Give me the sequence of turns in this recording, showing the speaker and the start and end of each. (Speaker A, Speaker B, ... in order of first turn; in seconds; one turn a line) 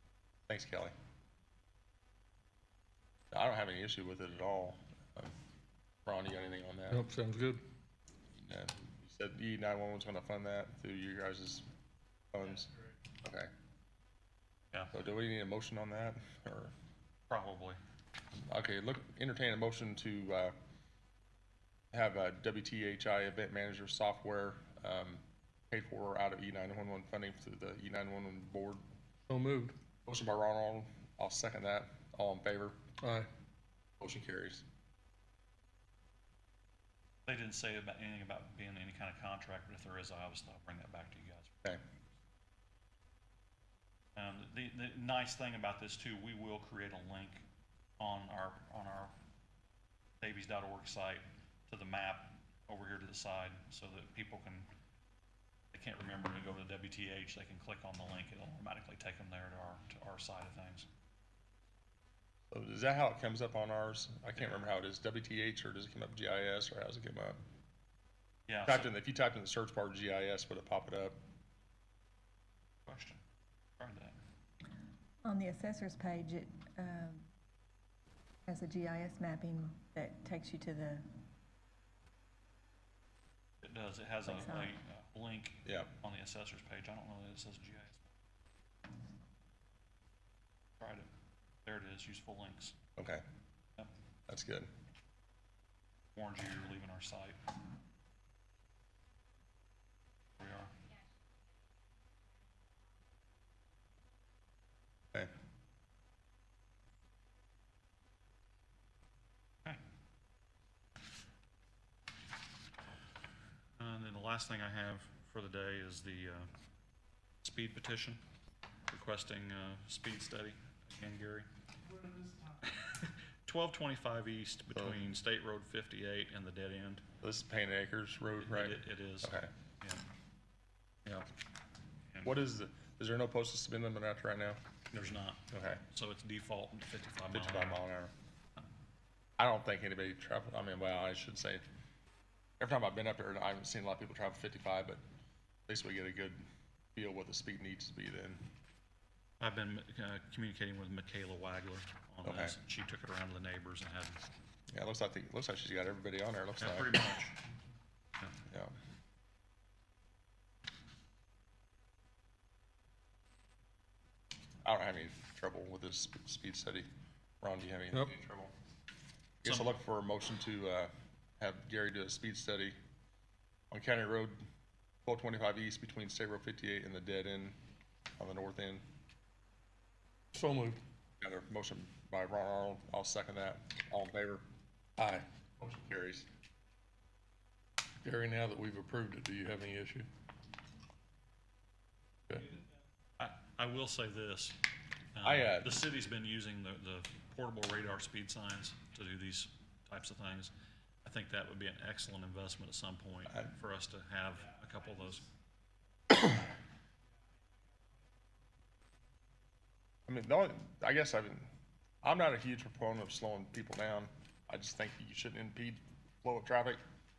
Speaker A: 0.5-0.9
Speaker A: 3.3-5.3
Speaker A: 6.0-7.0
Speaker B: 6.9-7.6
Speaker A: 8.3-11.6
Speaker A: 12.3-12.7
Speaker A: 13.2-13.5
Speaker A: 14.9-16.7
Speaker C: 17.3-17.8
Speaker A: 18.5-20.5
Speaker A: 21.9-28.8
Speaker B: 29.3-29.8
Speaker A: 30.1-32.8
Speaker B: 33.0-33.3
Speaker A: 34.0-34.6
Speaker C: 37.2-41.5
Speaker C: 44.1-47.4
Speaker C: 48.0-49.1
Speaker C: 50.2-54.7
Speaker C: 55.7-60.9
Speaker A: 62.5-67.4
Speaker C: 68.5-68.9
Speaker A: 68.7-71.2
Speaker C: 72.8-73.2
Speaker C: 73.8-74.2
Speaker D: 75.2-77.3
Speaker D: 78.5-81.0
Speaker C: 83.6-88.1
Speaker D: 84.3-84.7
Speaker A: 85.6-85.9
Speaker C: 90.8-91.1
Speaker C: 91.6-92.8
Speaker A: 93.0-93.2
Speaker A: 94.3-94.7
Speaker C: 96.1-97.4
Speaker C: 100.4-100.7
Speaker C: 113.8-116.5
Speaker C: 117.4-118.2
Speaker C: 118.9-121.5
Speaker B: 122.0-122.5
Speaker C: 122.6-127.0
Speaker A: 127.2-129.5
Speaker C: 128.4-130.1
Speaker A: 132.2-134.6
Speaker C: 134.9-137.8
Speaker A: 135.5-135.8
Speaker A: 137.3-138.1
Speaker A: 139.4-141.6
Speaker A: 142.6-145.0
Speaker A: 145.7-146.4
Speaker A: 146.9-148.4
Speaker C: 149.4-154.2
Speaker A: 152.2-152.5
Speaker A: 154.7-157.0
Speaker C: 156.6-157.4
Speaker A: 164.6-166.9
Speaker A: 167.4-168.5
Speaker A: 169.4-172.7
Speaker A: 173.7-174.4
Speaker A: 175.1-177.6
Speaker A: 178.2-178.8
Speaker B: 180.3-180.8
Speaker A: 181.2-184.4
Speaker B: 185.0-185.2
Speaker A: 185.6-186.3
Speaker B: 188.0-190.1
Speaker B: 192.3-192.6
Speaker C: 193.2-194.6
Speaker C: 195.1-200.5
Speaker A: 195.2-195.7
Speaker C: 201.0-205.2
Speaker A: 210.1-211.5
Speaker A: 212.0-216.8